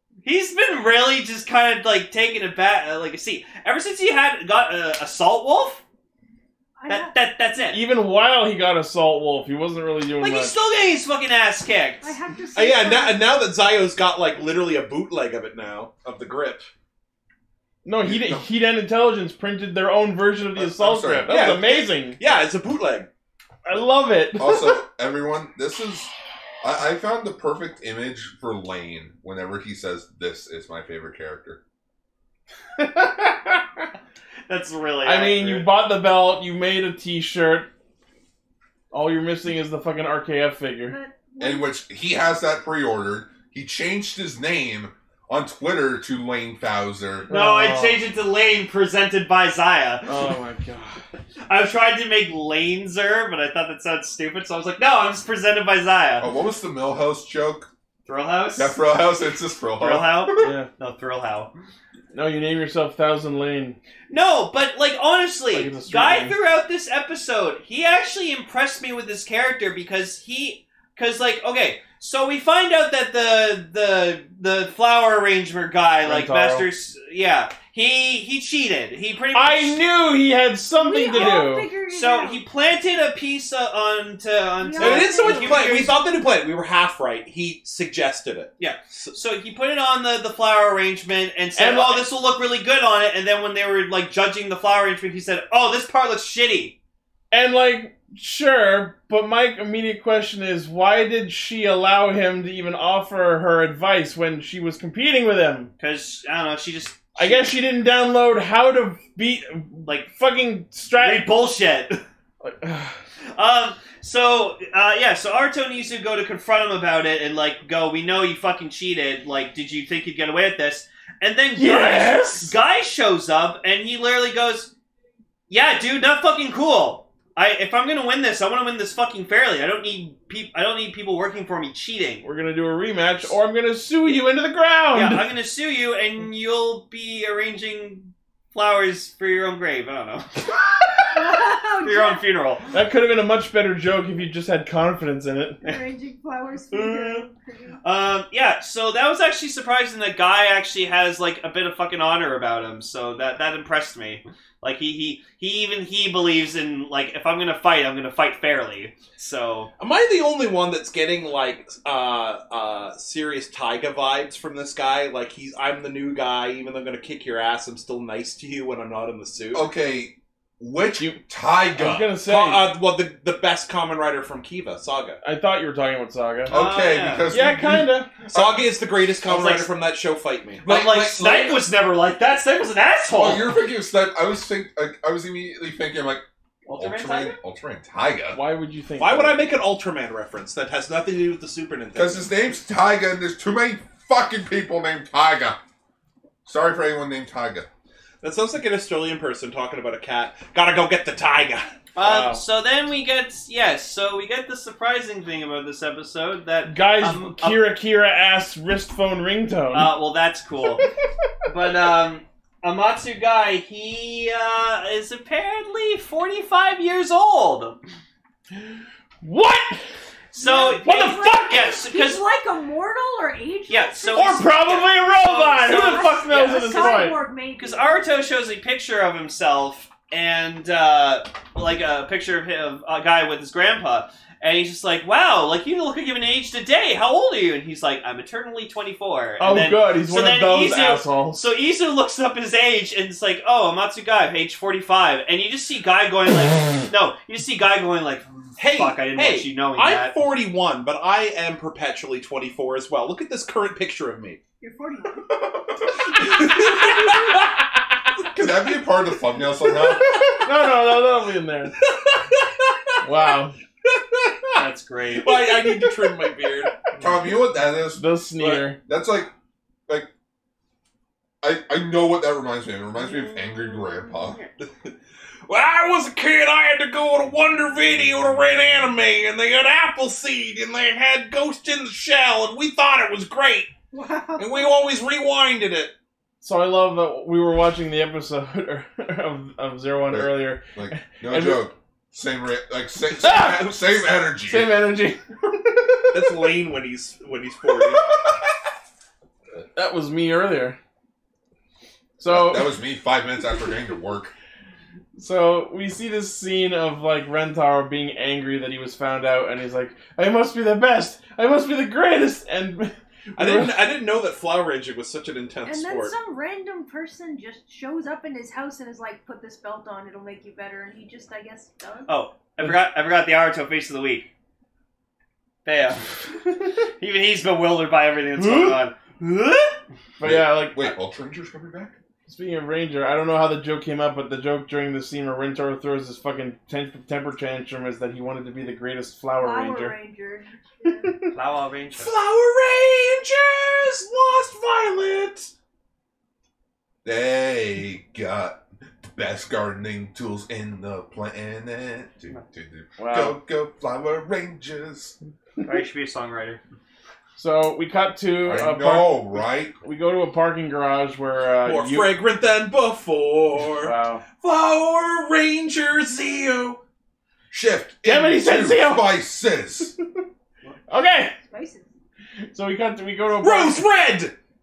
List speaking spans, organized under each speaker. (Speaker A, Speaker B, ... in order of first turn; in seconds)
Speaker A: 0.2-5.8, 6.9-7.8, 10.2-12.1, 34.5-35.7, 47.3-50.1, 51.5-56.3, 58.0-58.8, 59.8-61.5, 64.1-79.8, 81.1-86.0, 88.6-96.8, 105.8-107.5, 110.9-112.0, 113.3-124.7, 125.5-132.2, 134.9-140.6, 141.8-142.7, 146.7-147.2, 147.8-159.7, 176.5-177.3, 179.2-179.7, 180.6-183.5, 186.6-187.3, 201.9-207.6, 209.7-210.9, 211.4-217.8, 220.3-222.2, 223.7-250.1, 264.5-265.5, 273.0-274.5, 322.1-324.3, 325.6-326.2, 327.0-329.7, 341.3-342.1, 355.6-356.6
Speaker B: 6.8-7.1, 12.0-13.4, 40.9-41.7, 80.8-82.4, 84.6-85.8, 141.1-142.2, 145.6-147.8, 220.3-224.4, 225.6-228.1, 254.6-255.3, 256.8-257.1, 283.9-284.7, 315.6-322.1, 339.4-341.2, 366.1-366.4, 371.4-371.9
Speaker C: 7.7-10.6, 17.8-22.2, 23.6-24.8, 32.8-33.9, 35.0-37.7, 38.9-41.0, 47.3-48.0, 50.0-51.0, 60.4-60.7, 62.1-63.8, 65.5-66.3, 76.0-76.7, 79.3-81.7, 91.5-92.0, 97.3-105.7, 107.2-111.3, 112.4-113.0, 121.6-122.5, 132.2-135.3, 142.7-145.6, 171.8-172.7, 175.2-176.6, 177.3-178.2, 188.3-189.4, 202.0-202.4, 206.7-209.9, 219.2-219.8, 220.8-221.3, 224.1-227.2, 239.4-241.4, 260.4-261.8, 263.0-263.6, 267.9-268.8, 286.4-291.7, 293.2-296.3, 299.7-300.8, 302.2-302.7, 305.1-313.8, 328.4-328.8, 330.2-331.0, 332.2-339.9, 353.0-353.4, 357.4-362.1, 363.8-364.2, 368.0-369.1, 370.9-371.3, 372.5-373.9
Speaker D: 12.5-16.7, 21.3-23.1, 84.8-89.1, 159.8-169.7, 172.2-175.2, 178.3-181.5, 189.0-192.3, 198.2-201.8, 248.6-254.4, 256.2-257.4, 261.9-262.9, 263.9-264.6, 265.1-266.8, 268.4-268.6, 274.6-274.9, 275.5-283.7, 284.4-285.9, 296.1-298.1, 313.4-316.1, 341.9-345.5, 361.6-366.8, 373.4-374.3
Speaker E: 18.0-18.4, 20.5-21.3, 24.4-31.6, 41.4-47.3, 56.2-57.7, 58.5-60.5, 169.5-172.1, 176.5-178.5, 180.8-181.5, 183.1-186.2, 186.7-188.4, 191.9-195.6, 196.4-197.7, 258.3-260.3, 267.0-268.0, 268.8-269.3, 271.4-274.4, 290.1-294.7, 302.2-304.3, 330.2-331.9, 347.0-355.1, 358.4-359.7, 367.5-369.9